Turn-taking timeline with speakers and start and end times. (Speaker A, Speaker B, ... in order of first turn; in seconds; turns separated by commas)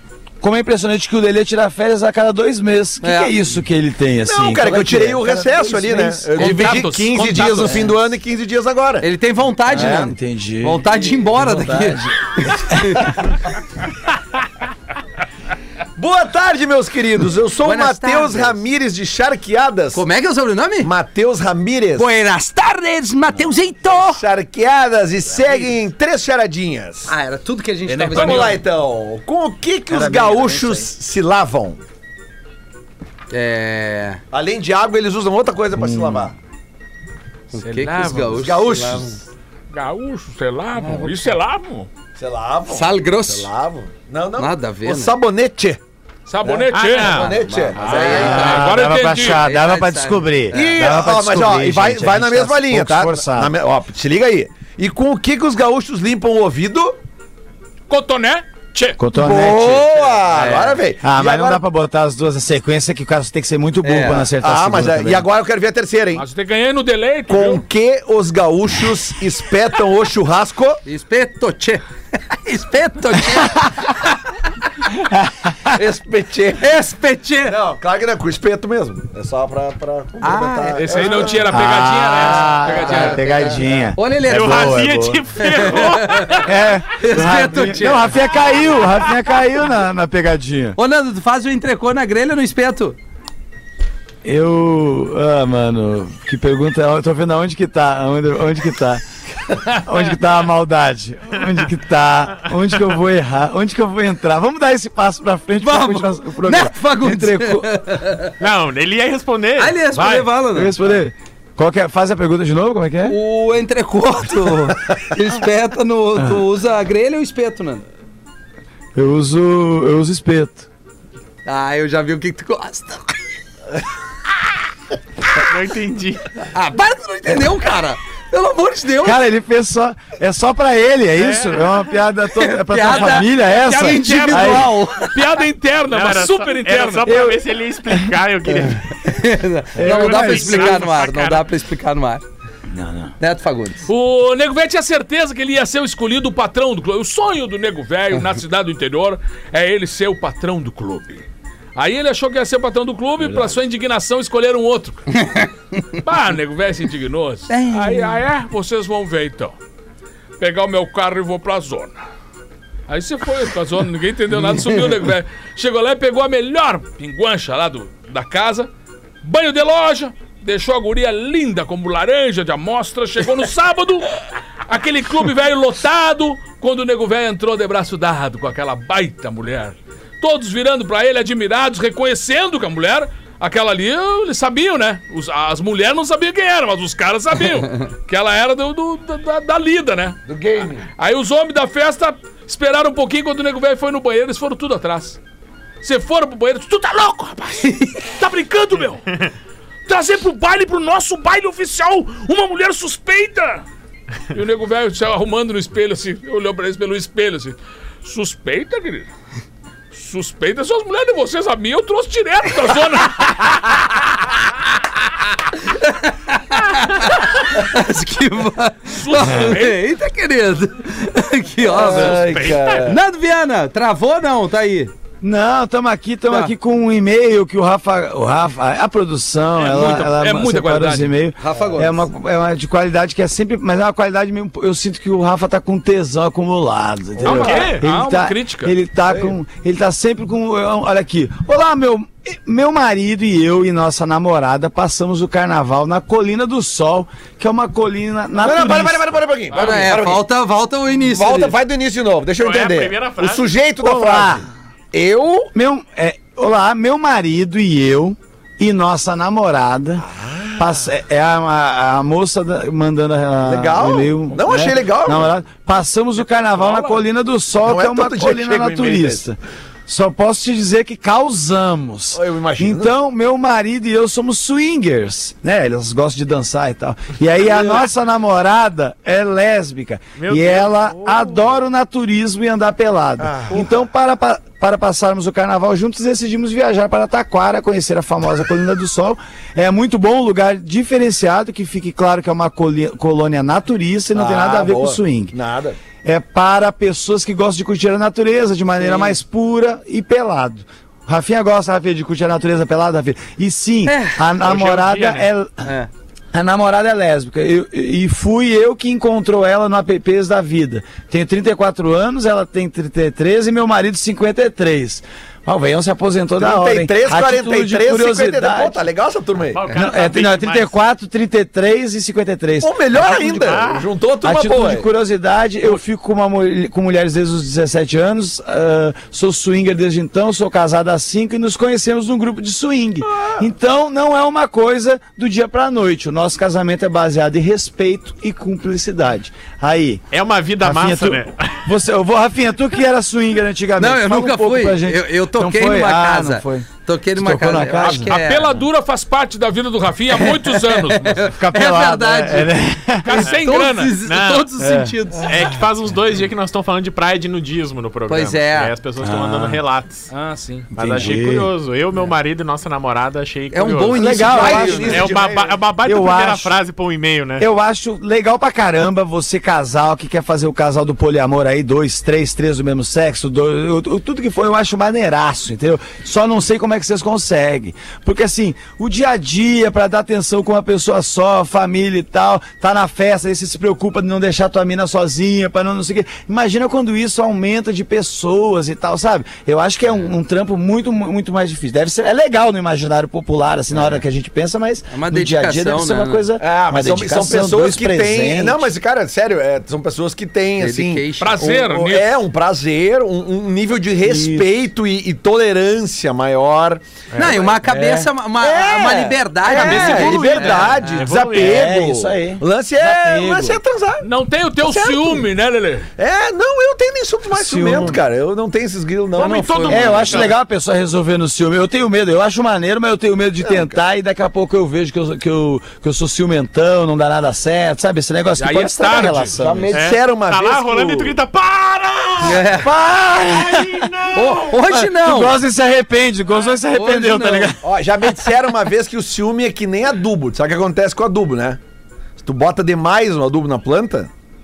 Speaker A: 0.4-6.3, Speaker B: 3.0-3.3, Speaker C: 4.2-9.1, Speaker D: 6.3-7.9, Speaker B: 6.5-6.8, Speaker B: 9.0-13.2, Speaker A: 9.7-13.1, Speaker C: 9.7-10.1, Speaker C: 16.0-20.0, Speaker B: 17.6-18.6, Speaker B: 19.9-20.9, Speaker C: 20.8-22.1, Speaker B: 21.9-24.2, Speaker C: 23.9-27.1, Speaker B: 27.1-28.6, Speaker D: 27.9-28.6, Speaker C: 28.1-31.8, Speaker A: 29.9-30.9, Speaker B: 33.3-34.2, Speaker C: 34.3-36.3, Speaker A: 35.8-36.3, Speaker B: 37.5-39.2, Speaker D: 37.6-38.5, Speaker C: 38.3-39.2, Speaker D: 39.7-41.9, Speaker B: 40.8-41.1, Speaker C: 42.2-45.8, Speaker B: 42.7-43.5, Speaker B: 44.4-45.1, Speaker D: 46.3-49.4, Speaker C: 46.4-48.6, Speaker E: 46.7-47.4, Speaker B: 47.0-50.7, Speaker A: 48.1-53.5, Speaker C: 50.5-57.0, Speaker D: 57.9-59.0, Speaker A: 59.0-59.9, Speaker C: 59.1-61.6, Speaker B: 60.3-60.8, Speaker A: 61.0-65.2, Speaker B: 63.8-64.3, Speaker C: 64.4-66.2, Speaker D: 66.2-67.6, Speaker C: 67.3-70.8, Speaker B: 70.8-73.9, Speaker A: 74.9-75.5, Speaker C: 75.7-76.7, Speaker B: 76.6-77.5, Speaker C: 77.5-81.6, Speaker B: 80.2-81.2, Speaker D: 80.8-83.4, Speaker A: 81.3-85.2, Speaker B: 82.7-84.8, Speaker C: 83.3-83.5, Speaker E: 84.3-86.5, Speaker B: 85.4-88.3, Speaker A: 86.4-90.8, Speaker C: 87.2-88.1, Speaker B: 90.8-93.0, Speaker A: 94.2-99.0, Speaker A: 99.7-107.7, Speaker B: 105.6-108.3, Speaker E: 108.4-110.3, Speaker B: 109.6-110.7, Speaker A: 110.5-113.2, Speaker B: 113.0-117.8, Speaker A: 118.9-120.7, Speaker B: 121.5-123.2, Speaker E: 125.4-126.3, Speaker B: 126.5-129.2, Speaker A: 129.0-134.7, Speaker B: 132.3-135.2, Speaker D: 132.9-137.1, Speaker E: 135.9-138.9, Speaker A: 137.1-137.4, Speaker B: 139.0-142.2, Speaker A: 139.8-140.8, Speaker E: 139.8-141.5, Speaker A: 142.7-143.1, Speaker B: 143.2-143.9, Speaker D: 143.9-151.2, Speaker D: 151.7-155.1, Speaker B: 155.1-155.8, Speaker D: 156.0-159.5, Speaker B: 157.5-158.2, Speaker D: 160.4-162.0, Speaker D: 162.9-168.7, Speaker D: 169.2-190.2, Speaker C: 190.3-190.8, Speaker D: 191.0-195.2, Speaker D: 195.8-199.1, Speaker D: 199.9-203.6, Speaker D: 204.3-209.1, Speaker D: 209.9-213.8, Speaker B: 215.6-224.9, Speaker D: 218.9-219.8, Speaker C: 221.6-223.0, Speaker E: 221.9-222.9, Speaker A: 225.2-249.1, Speaker D: 229.6-231.1, Speaker B: 231.4-232.1, Speaker C: 237.2-237.8, Speaker E: 237.2-237.8, Speaker D: 237.8-238.7, Speaker C: 239.1-239.3, Speaker C: 248.4-250.2, Speaker D: 249.5-249.9, Speaker B: 249.5-251.6, Speaker C: 251.0-255.5, Speaker E: 252.4-253.5, Speaker A: 253.8-254.5, Speaker A: 255.5-295.3, Speaker C: 260.1-260.6, Speaker C: 263.4-265.3, Speaker C: 267.6-269.2, Speaker C: 272.1-272.9, Speaker E: 280.2-281.5, Speaker C: 283.2-283.8, Speaker C: 294.1-295.8, Speaker A: 296.0-305.6, Speaker B: 298.8-299.2, Speaker B: 303.8-304.2, Speaker E: 304.4-305.3, Speaker B: 305.6-305.9, Speaker A: 306.3-318.8, Speaker C: 316.4-319.6, Speaker E: 319.5-320.7, Speaker A: 319.7-323.1, Speaker C: 322.6-324.9, Speaker E: 322.9-323.9, Speaker A: 324.2-340.0, Speaker E: 340.1-341.6, Speaker A: 340.6-348.1, Speaker B: 343.8-348.6, Speaker D: 347.8-351.3, Speaker B: 351.0-355.3, Speaker A: 351.2-353.2, Speaker D: 353.0-353.9, Speaker E: 354.0-354.5, Speaker A: 354.6-354.9, Speaker E: 355.2-360.1, Speaker B: 358.1-358.7, Speaker A: 359.0-359.6, Speaker D: 360.1-360.7, Speaker E: 360.7-367.4, Speaker A: 360.8-361.5, Speaker B: 363.5-365.0, Speaker A: 363.9-365.2, Speaker C: 364.2-365.6, Speaker A: 365.8-366.5, Speaker A: 367.4-398.7, Speaker B: 394.9-396.3, Speaker C: 396.4-407.5, Speaker B: 400.6-401.4, Speaker D: 401.2-402.2, Speaker A: 404.0-404.5, Speaker E: 407.1-407.5, Speaker B: 407.1-411.0, Speaker A: 407.6-408.1, Speaker C: 408.4-414.1, Speaker E: 409.4-411.6, Speaker A: 411.3-413.6, Speaker D: 414.0-415.9, Speaker C: 414.6-415.2, Speaker C: 416.0-420.3, Speaker A: 417.3-418.0, Speaker B: 419.1-420.3, Speaker E: 419.2-420.3, Speaker A: 419.7-429.8, Speaker C: 423.4-423.7, Speaker D: 428.4-429.4, Speaker C: 429.4-431.2, Speaker E: 429.7-432.6, Speaker B: 432.2-432.7, Speaker A: 432.6-434.1, Speaker E: 433.2-434.6, Speaker B: 434.1-435.4, Speaker A: 434.6-438.2, Speaker B: 436.7-437.5, Speaker C: 437.6-441.6, Speaker C: 442.2-444.1